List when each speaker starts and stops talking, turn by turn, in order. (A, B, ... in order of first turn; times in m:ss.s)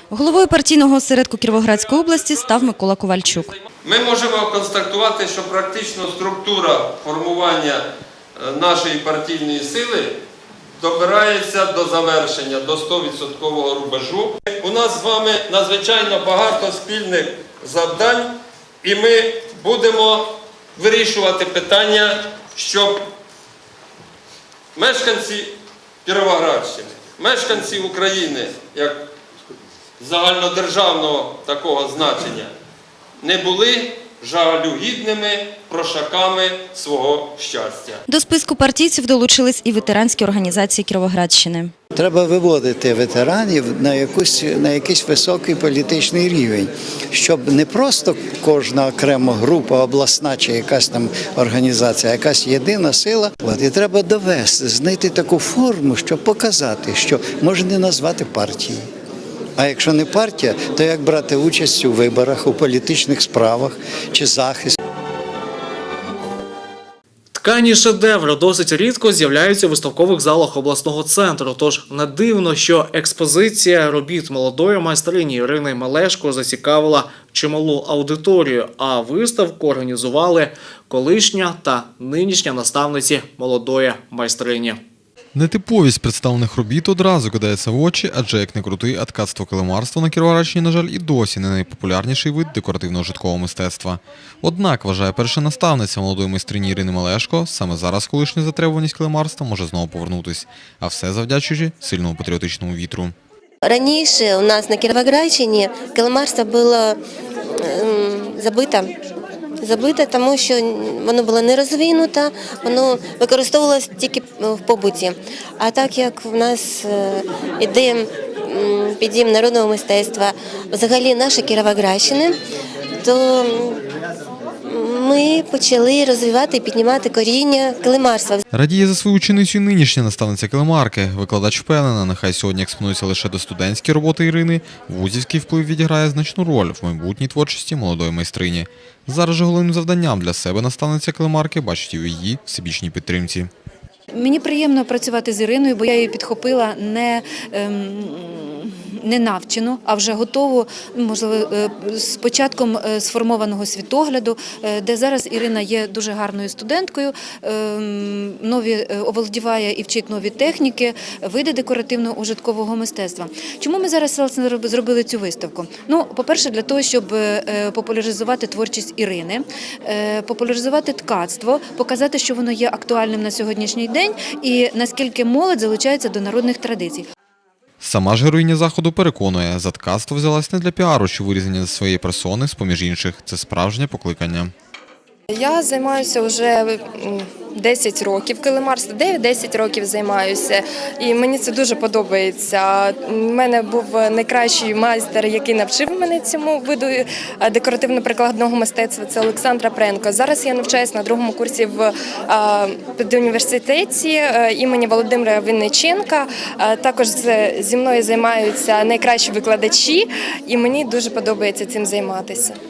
0:00.1-0:03.5 A
0:03.8-0:07.8 B
0:08.4-0:10.2 B
0:10.8-0:23.0 B
0:24.8-0:25.5 B
0:26.0-0:29.1 B
0:30.0-0:32.5 B
0:33.2-0:38.0 B
0:38.1-0:41.7 A
0:41.9-0:58.8 C
0:59.6-1:04.8 C
1:07.3-1:24.8 D
1:25.3-1:43.1 E
1:43.6-1:47.0 F
1:47.6-1:48.9 F
1:49.6-2:02.4 F
2:03.0-2:03.8 F
2:04.6-2:08.4 F
2:08.5-2:23.5 E
2:24.1-2:57.0 G
2:57.8-3:04.5 E
3:05.3-3:32.5 H